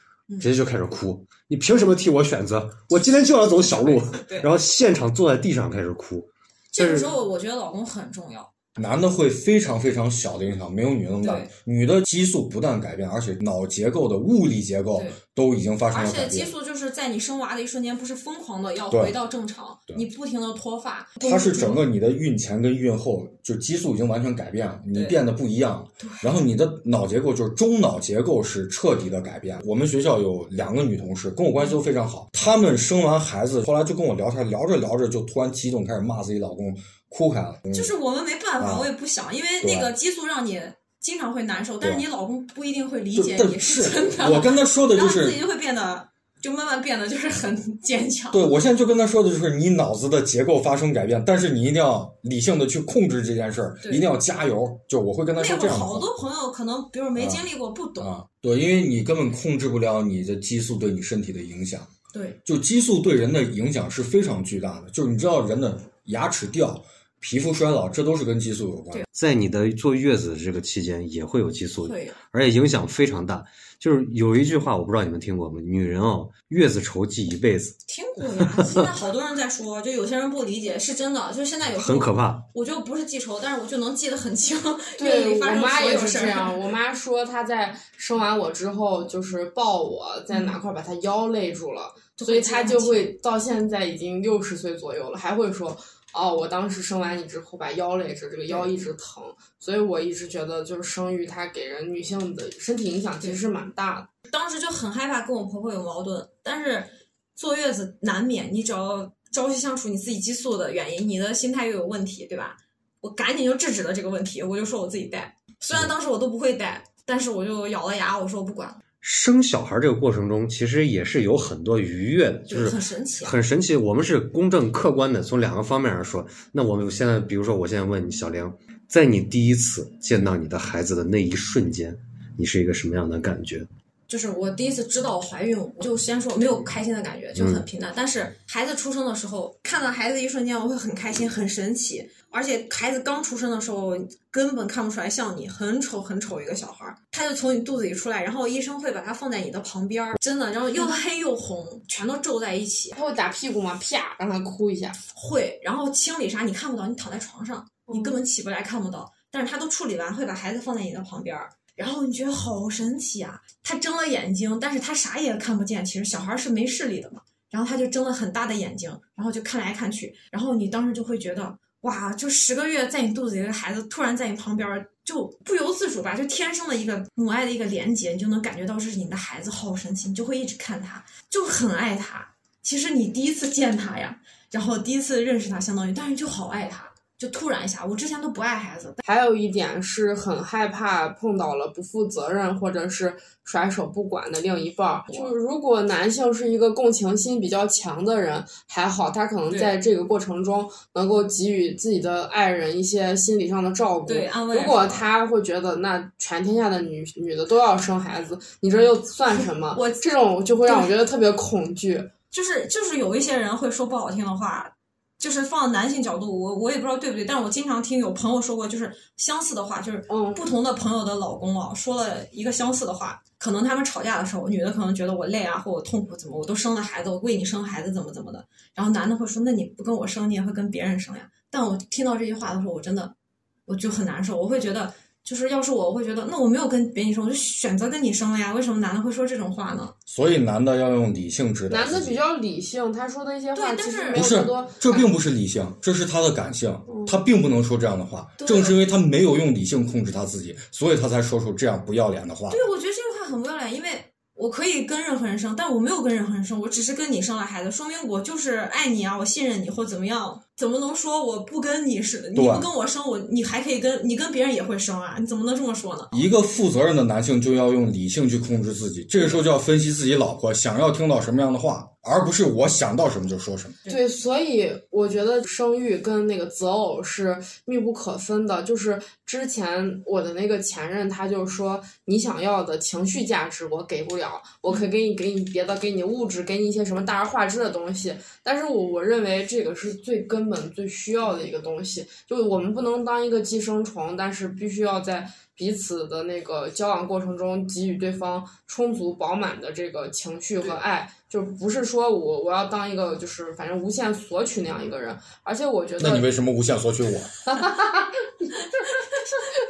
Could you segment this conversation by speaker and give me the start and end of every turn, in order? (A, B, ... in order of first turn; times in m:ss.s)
0:00.4-0:07.1 A
0:03.6-0:04.5 B
0:06.7-0:08.5 B
0:08.8-0:16.5 C
0:11.2-0:11.5 B
0:15.9-0:21.8 B
0:18.9-0:19.1 C
0:21.2-0:37.9 C
0:24.9-0:25.2 B
0:26.0-0:26.3 B
0:37.7-0:48.4 B
0:38.6-0:38.9 C
0:39.6-0:39.9 C
0:43.1-0:45.4 C
0:48.3-0:56.1 C
0:55.4-0:58.1 B
0:57.2-0:57.4 C
0:58.0-1:01.9 C
1:02.1-1:02.4 B
1:02.4-1:09.0 C
1:09.1-1:17.7 A
1:11.8-1:12.2 B
1:17.9-1:26.7 B
1:18.4-1:18.9 A
1:21.7-1:22.4 A
1:25.0-1:44.1 D
1:30.3-1:30.6 B
1:32.2-1:33.1 B
1:44.3-1:58.8 B
1:59.0-2:13.7 A
2:02.5-2:03.4 B
2:14.1-2:33.0 B
2:17.3-2:17.6 A
2:32.9-2:35.0 D
2:35.1-3:09.0 B
2:37.9-2:38.2 D
3:09.0-3:32.1 D
3:24.0-3:25.1 B
3:29.3-3:30.1 B
3:30.6-3:30.9 B
3:32.3-3:53.1 B
3:40.1-3:40.5 D
3:53.7-3:59.9 B
4:00.1-4:02.2 C
4:01.7-4:05.1 D
4:03.5-4:04.2 B
4:04.1-4:12.6 C
4:06.9-4:07.1 D
4:08.4-4:08.8 B
4:12.5-4:26.2 B
4:22.3-4:22.7 C
4:26.1-4:33.8 C
4:33.9-5:06.2 D
5:06.0-5:07.3 C
5:07.4-5:09.4 D